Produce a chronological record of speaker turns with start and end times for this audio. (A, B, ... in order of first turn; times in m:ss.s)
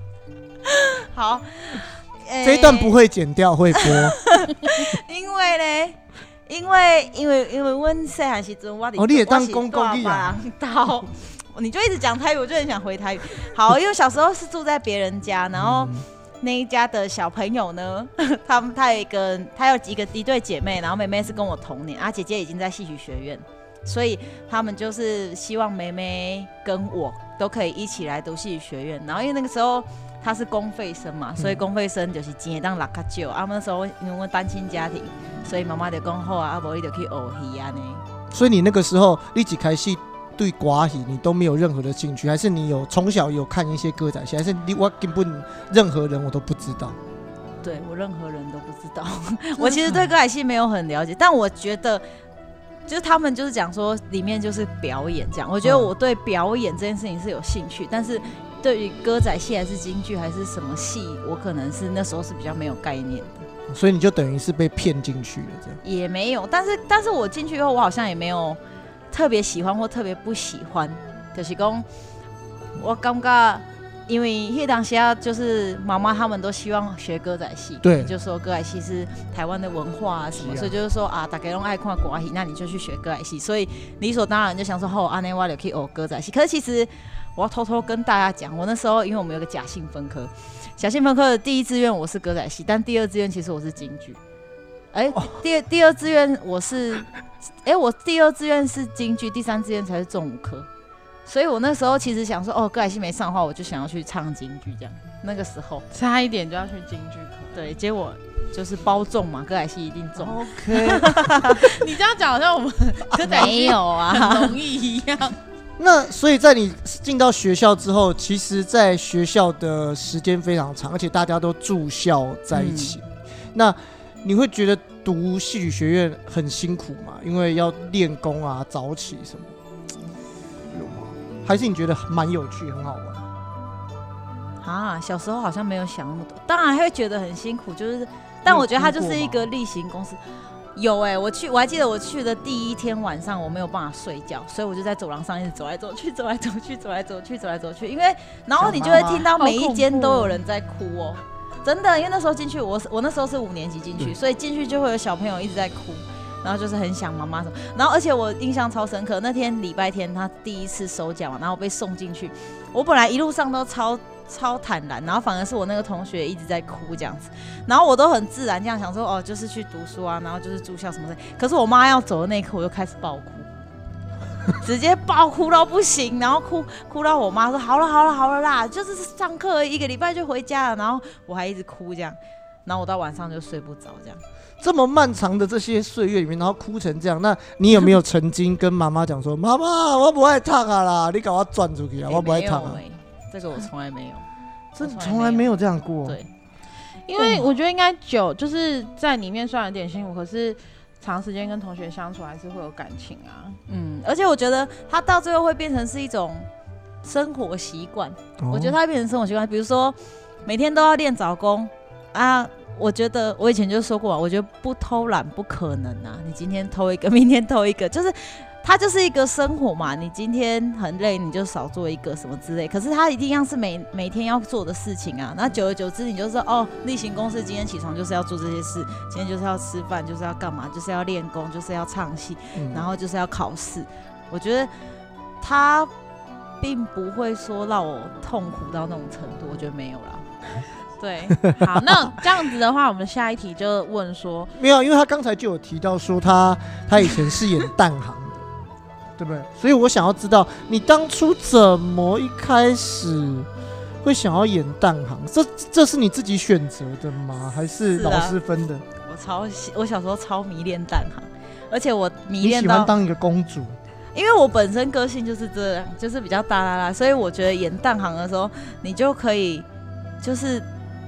0:00.6-0:03.0 A
0:02.4-0:04.2 B
0:03.7-0:38.0 A
0:09.0-0:10.4 B
0:15.6-0:16.0 B
0:31.4-0:31.6 B
0:38.3-0:47.0 B
0:47.6-0:52.0 A
0:49.8-0:50.1 B
0:52.9-1:03.5 A
0:55.6-0:55.9 B
1:03.7-1:05.8 B
1:05.8-1:08.6 A
1:09.1-1:11.8 A
1:12.8-1:34.2 A
1:17.8-1:18.1 B
1:20.3-1:20.7 B
1:34.9-1:37.1 A
1:37.6-1:40.7 A
1:41.2-1:45.8 A
1:45.9-1:47.7 C
1:47.5-1:51.8 A
1:50.2-1:51.6 B
1:51.5-1:55.4 C
1:53.2-1:53.6 B
1:53.2-1:54.6 A
1:55.8-2:03.0 B
2:02.5-2:03.0 A
2:03.5-2:09.6 B
2:10.7-2:13.2 B
2:14.6-2:20.2 A
2:18.4-2:19.5 B
2:20.8-2:53.5 A
2:28.6-2:29.2 B
2:28.7-2:30.4 C
2:54.6-3:04.2 A
3:04.6-3:12.8 B
3:12.0-3:14.2 A
3:14.8-3:16.2 B
3:14.8-3:15.5 A
3:16.0-3:16.3 A
3:17.1-3:23.6 C
3:17.2-3:17.4 B
3:23.7-3:26.5 A
3:27.0-3:54.7 A
3:28.4-3:28.8 B
3:52.5-3:52.9 B
3:55.4-3:55.9 A
3:56.6-4:00.4 A
4:01.0-4:04.5 C
4:01.4-4:01.9 B
4:04.5-4:08.4 B
4:09.2-4:13.5 B
4:14.0-4:18.8 B
4:17.9-4:18.4 A
4:19.0-4:22.9 A
4:22.4-4:23.8 B
4:24.1-4:29.6 A
4:30.2-4:30.6 A